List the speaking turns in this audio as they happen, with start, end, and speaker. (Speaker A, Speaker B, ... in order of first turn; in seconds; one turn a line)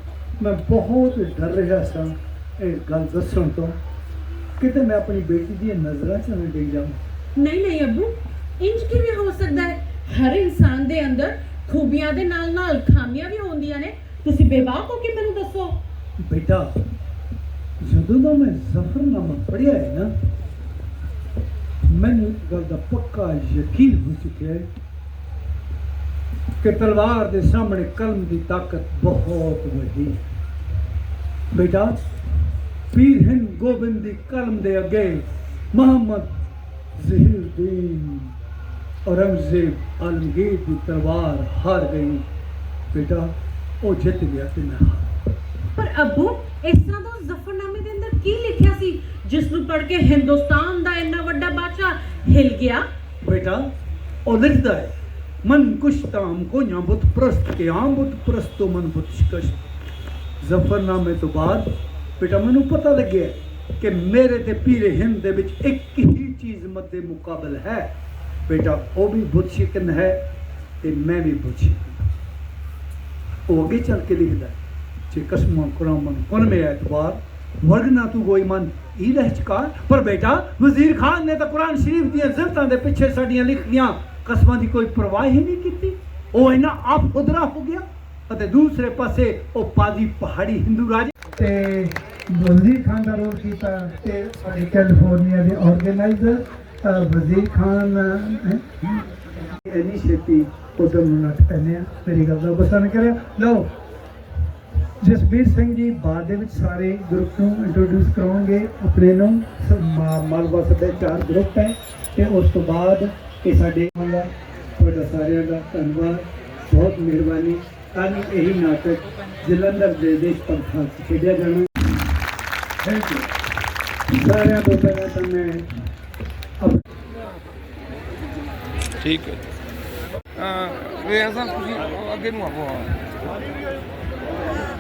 Speaker A: 0.4-3.8
Speaker A: 4.6-7.0
Speaker B: 7.4-15.8
Speaker A: 16.2-16.7
Speaker A: 17.8-20.1
Speaker A: 21.9-24.7
Speaker A: 26.6-30.2
Speaker A: 31.5-32.0
Speaker A: 32.9-36.4
Speaker A: 37.0-38.3
Speaker A: 39.0-42.2
Speaker A: 42.9-45.1
Speaker B: 45.8-52.9
Speaker A: 53.2-53.7
Speaker A: 54.2-59.6
Speaker A: 60.4-67.9
Speaker A: 68.5-70.2
Speaker A: 70.8-72.1
Speaker A: 73.5-74.6
Speaker A: 75.1-103.7
Speaker A: 105.0-121.7
Speaker A: 122.8-123.3
Speaker A: 124.1-125.7
Speaker C: 129.0-129.4
Speaker C: 130.3-133.1